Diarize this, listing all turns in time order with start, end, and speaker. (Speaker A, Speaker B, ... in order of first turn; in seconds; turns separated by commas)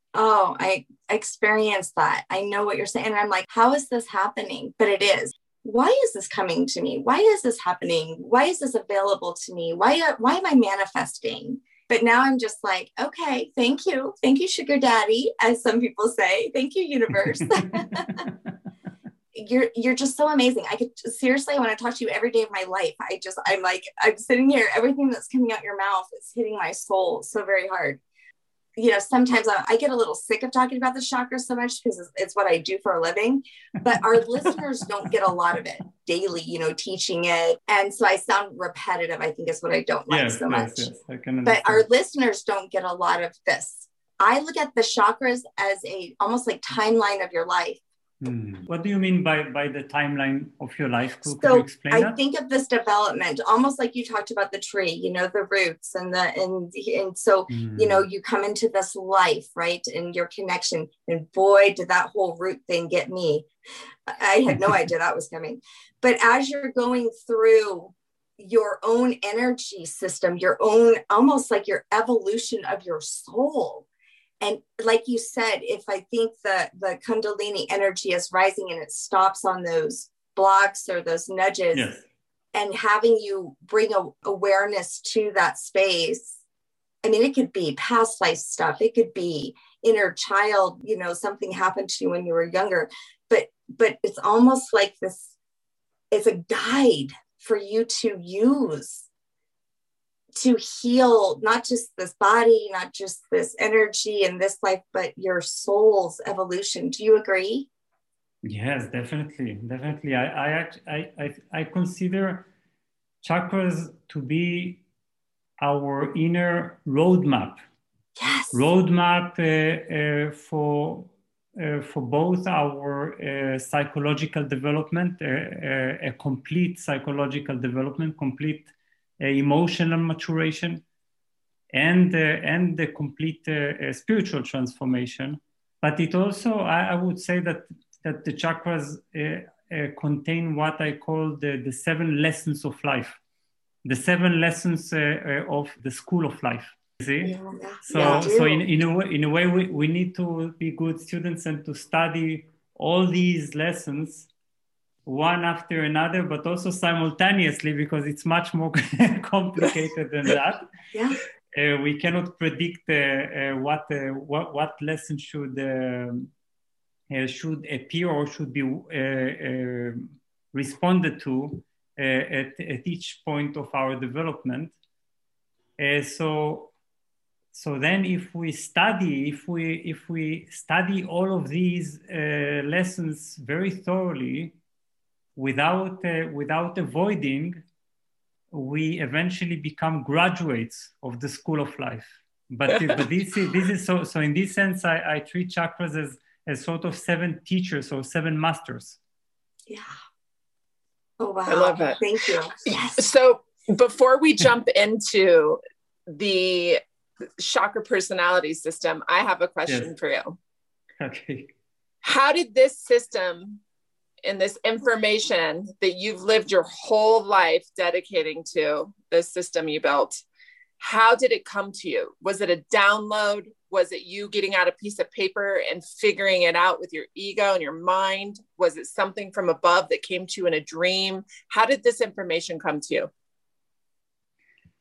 Speaker A: 0.1-18.3, Speaker B: 17.2-18.3, Speaker A: 19.3-28.0, Speaker A: 28.8-40.9, Speaker B: 40.1-41.9, Speaker A: 41.4-47.8, Speaker B: 48.2-52.2, Speaker A: 51.2-63.5, Speaker B: 57.5-58.1, Speaker A: 64.1-73.8, Speaker A: 74.4-81.9, Speaker B: 81.7-82.0, Speaker A: 82.5-86.4, Speaker A: 87.0-95.3, Speaker A: 96.1-99.0, Speaker A: 100.3-107.7, Speaker B: 108.4-112.5, Speaker B: 113.2-114.8, Speaker B: 115.6-117.6, Speaker A: 118.2-118.6, Speaker B: 118.5-130.8, Speaker B: 131.7-143.2, Speaker B: 143.8-154.3, Speaker A: 147.2-148.7, Speaker C: 147.9-148.3, Speaker B: 155.1-160.7, Speaker A: 160.9-161.2, Speaker B: 161.5-166.3, Speaker B: 167.1-174.7, Speaker B: 175.8-176.7, Speaker B: 177.5-184.6, Speaker B: 185.3-187.6, Speaker B: 188.5-199.0, Speaker A: 201.2-203.0, Speaker C: 201.5-202.1, Speaker C: 202.7-206.8, Speaker C: 207.4-210.4, Speaker B: 209.7-209.9, Speaker B: 211.0-211.5, Speaker C: 212.0-213.6, Speaker C: 214.2-220.2, Speaker C: 220.8-233.1